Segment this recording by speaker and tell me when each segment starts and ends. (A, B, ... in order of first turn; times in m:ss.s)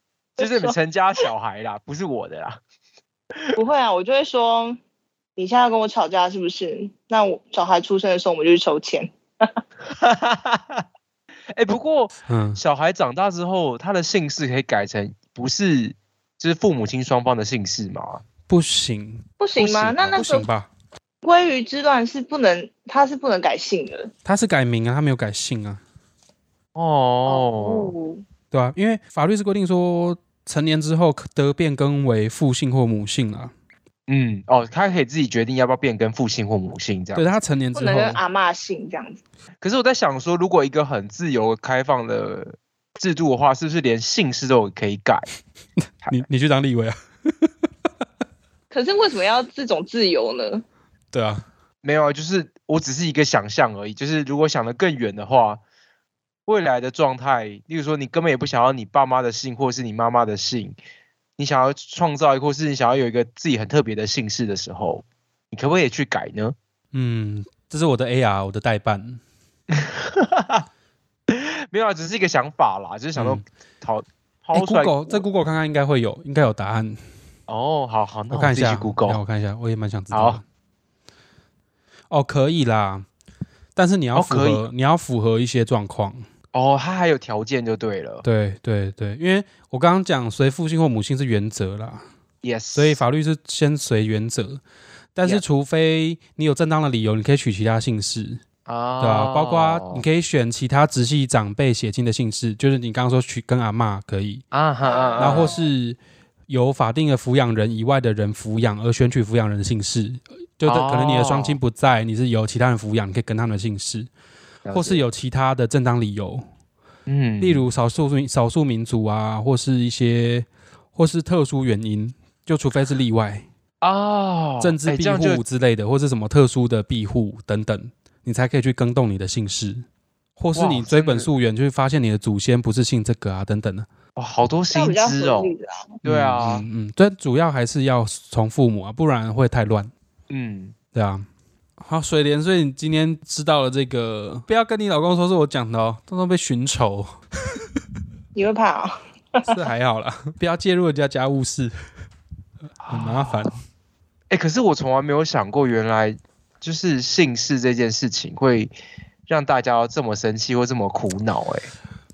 0:00.4-0:00.8 A
0:00.4-0:02.6 B
0:03.6-0:04.8 A
0:05.4-0:09.6 A
0:09.9-0:10.8 B
0:11.5-0:18.2 B
0:12.3-0:12.6 C
0:18.5-0:20.7 C
0:19.4-0:20.4 A
0:21.2-0:24.1 A
0:24.2-0:25.8 C
0:26.7-0:27.9 B
0:27.2-0:28.2 A
0:28.5-0:33.5 C
0:34.1-0:37.4 B
0:37.1-0:38.2 C
0:37.7-0:39.2 A
0:39.6-0:45.3 B
0:46.1-0:47.5 C
0:48.7-0:50.6 A
0:51.1-0:51.4 C
0:51.8-0:55.6 B
0:56.4-1:00.8 B
1:01.4-1:06.5 B
1:06.9-1:09.2 C
1:09.7-1:10.6 B
1:11.3-1:15.2 B
1:13.2-1:13.4 C
1:14.5-1:17.0 C
1:17.5-1:19.2 B
1:18.3-1:20.4 C
1:20.1-1:20.4 B
1:22.1-1:23.0 C
1:23.8-1:26.3 C
1:24.1-1:24.6 B
1:26.5-1:28.2 B
1:28.2-1:32.0 C
1:32.4-1:33.0 B
1:32.8-1:34.6 C
1:35.1-1:38.4 C
1:38.6-1:40.0 B
1:39.0-1:44.4 C
1:44.5-1:45.5 B
1:44.8-1:45.6 A
1:45.2-1:54.1 C
1:50.6-1:51.6 B
1:54.6-1:55.0 B
1:54.7-1:56.4 C
1:57.1-1:57.6 B
1:57.4-2:03.4 C
2:03.8-2:05.4 B
2:04.6-2:09.8 C
2:10.4-2:13.9 C
2:10.5-2:11.3 B
2:14.2-2:15.5 B
2:14.7-2:16.0 A
2:16.0-2:16.6 B
2:16.0-2:19.9 C
2:20.3-2:20.7 B
2:20.9-2:21.2 C
2:21.8-2:27.6 C
2:28.3-2:29.5 A
2:29.5-2:31.7 C
2:32.8-2:33.5 B
2:32.9-2:33.6 C
2:34.3-2:38.7 B
2:39.3-2:41.7 B